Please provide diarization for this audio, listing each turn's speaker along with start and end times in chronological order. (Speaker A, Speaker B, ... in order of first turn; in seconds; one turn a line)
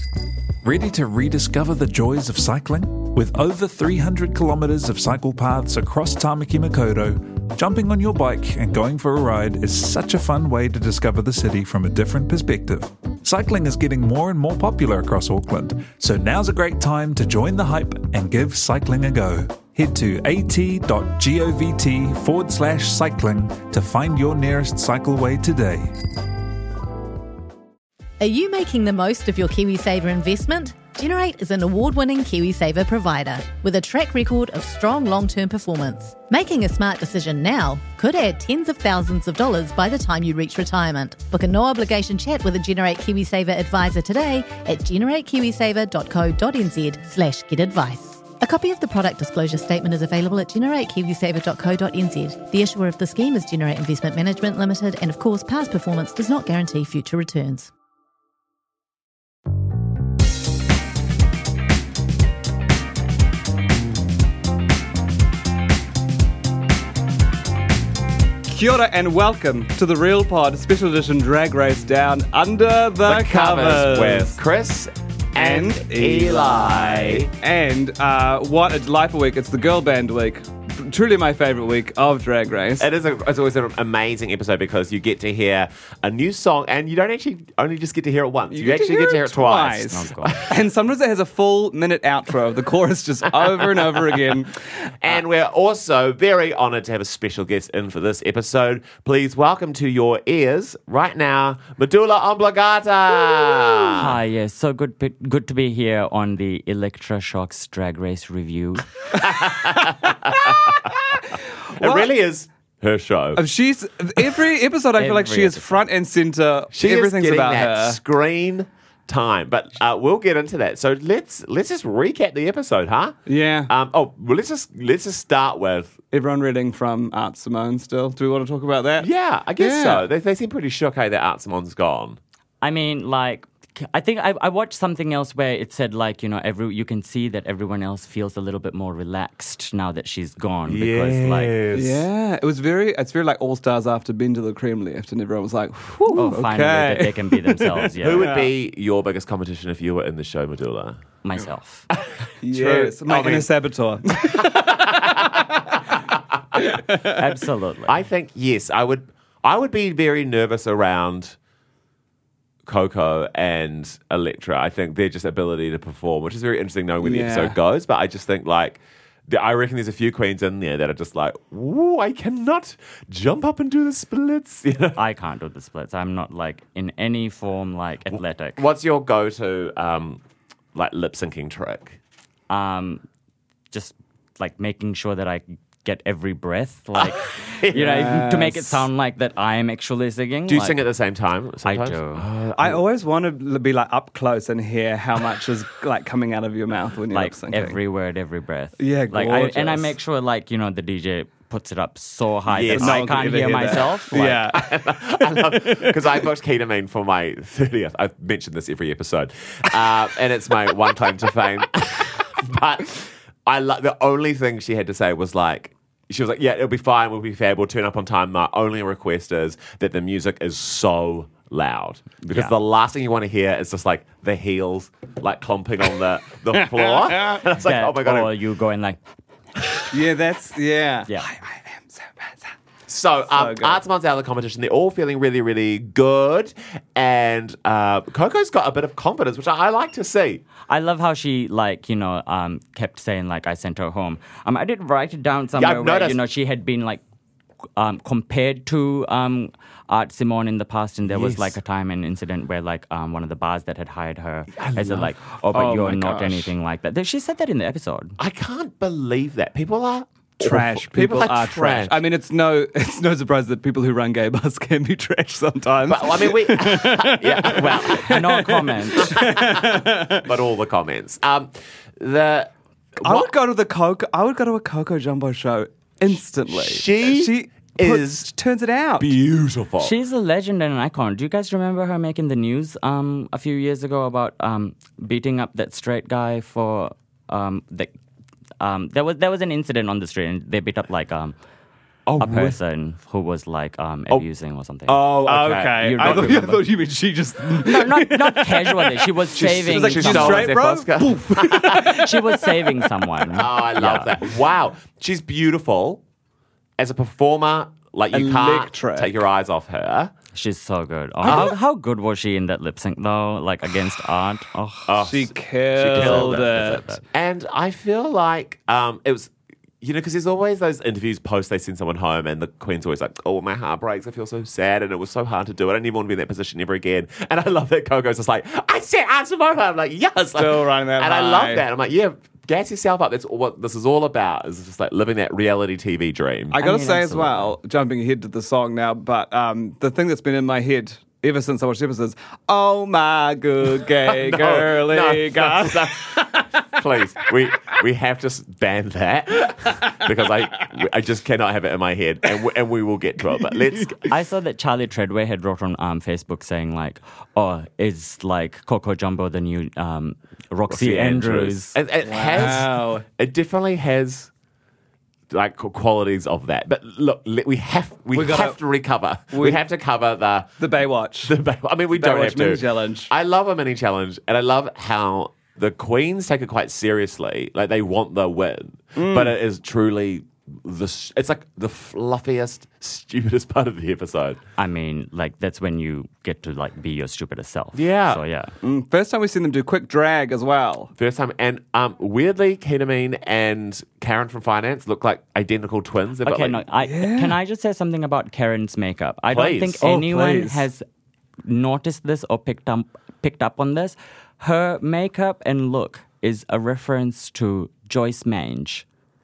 Speaker A: 0.6-25.9
Speaker B: 28.2-57.7
Speaker C: 68.5-74.4
Speaker D: 73.0-77.3
Speaker C: 75.3-82.9
Speaker D: 82.8-90.6
Speaker C: 88.5-95.1
Speaker E: 89.9-90.3
Speaker D: 93.4-93.9
Speaker D: 95.0-104.2
Speaker E: 103.9-108.9
Speaker D: 109.1-111.0
Speaker D: 111.7-113.4
Speaker C: 111.7-112.1
Speaker C: 113.3-118.0
Speaker E: 115.0-115.9
Speaker D: 116.7-126.0
Speaker C: 123.2-123.7
Speaker C: 126.1-130.1
Speaker D: 129.0-132.2
Speaker E: 132.6-141.6
Speaker D: 140.7-142.1
Speaker C: 141.7-148.5
Speaker E: 146.1-148.3
Speaker D: 147.9-151.0
Speaker E: 151.2-151.9
Speaker C: 152.4-155.7
Speaker D: 152.4-153.5
Speaker D: 154.3-155.4
Speaker C: 156.6-157.1
Speaker E: 157.1-157.9
Speaker D: 157.8-161.3
Speaker D: 162.7-175.0
Speaker C: 167.0-167.6
Speaker E: 174.9-178.6
Speaker D: 178.1-180.2
Speaker D: 180.7-182.0
Speaker E: 182.5-183.0
Speaker E: 183.7-190.8
Speaker D: 187.0-188.1
Speaker C: 187.7-188.9
Speaker D: 190.5-192.8
Speaker E: 191.6-192.2
Speaker C: 192.6-197.8
Speaker E: 197.1-204.4
Speaker C: 198.8-199.9
Speaker D: 202.5-203.2
Speaker C: 202.7-204.7
Speaker D: 204.5-228.3
Speaker C: 205.2-206.1
Speaker E: 222.2-222.6
Speaker C: 226.6-227.4
Speaker E: 227.6-229.0
Speaker C: 229.9-232.5
Speaker D: 232.9-240.4
Speaker C: 233.3-233.8
Speaker E: 240.7-247.0
Speaker D: 245.6-246.2
Speaker E: 247.8-258.2
Speaker D: 251.0-251.6
Speaker D: 254.5-255.8
Speaker C: 255.5-256.5
Speaker D: 258.2-262.0
Speaker C: 260.4-270.3
Speaker D: 265.9-268.1
Speaker E: 268.0-269.4
Speaker D: 269.4-273.3
Speaker C: 273.0-279.1
Speaker D: 276.5-278.3
Speaker D: 279.0-279.9
Speaker E: 279.8-287.9
Speaker E: 288.6-291.3
Speaker D: 292.1-292.6
Speaker E: 292.2-296.6
Speaker D: 294.9-296.5
Speaker C: 295.2-303.0
Speaker E: 297.5-300.5
Speaker D: 299.3-302.0
Speaker E: 301.8-304.1
Speaker D: 303.3-306.0
Speaker D: 306.8-310.1
Speaker C: 308.1-309.1
Speaker E: 310.3-314.9
Speaker D: 311.2-311.5
Speaker C: 311.3-311.5
Speaker D: 314.9-336.5
Speaker C: 315.0-317.0
Speaker E: 315.9-317.0
Speaker C: 330.3-331.6
Speaker E: 336.5-337.5
Speaker C: 336.5-346.7
Speaker D: 344.0-354.0
Speaker C: 349.7-350.0
Speaker E: 354.1-361.8
Speaker D: 360.7-364.3
Speaker C: 362.0-363.0
Speaker D: 365.3-370.6
Speaker C: 368.1-368.6
Speaker C: 369.3-369.6
Speaker C: 370.6-371.3
Speaker D: 371.2-384.4
Speaker C: 371.9-373.1
Speaker C: 378.9-379.4
Speaker E: 384.6-388.5
Speaker D: 387.7-388.2
Speaker C: 388.6-390.9
Speaker D: 390.9-396.6
Speaker E: 396.2-400.8
Speaker C: 396.8-397.4
Speaker D: 399.3-399.8
Speaker C: 399.8-400.6
Speaker E: 401.4-408.9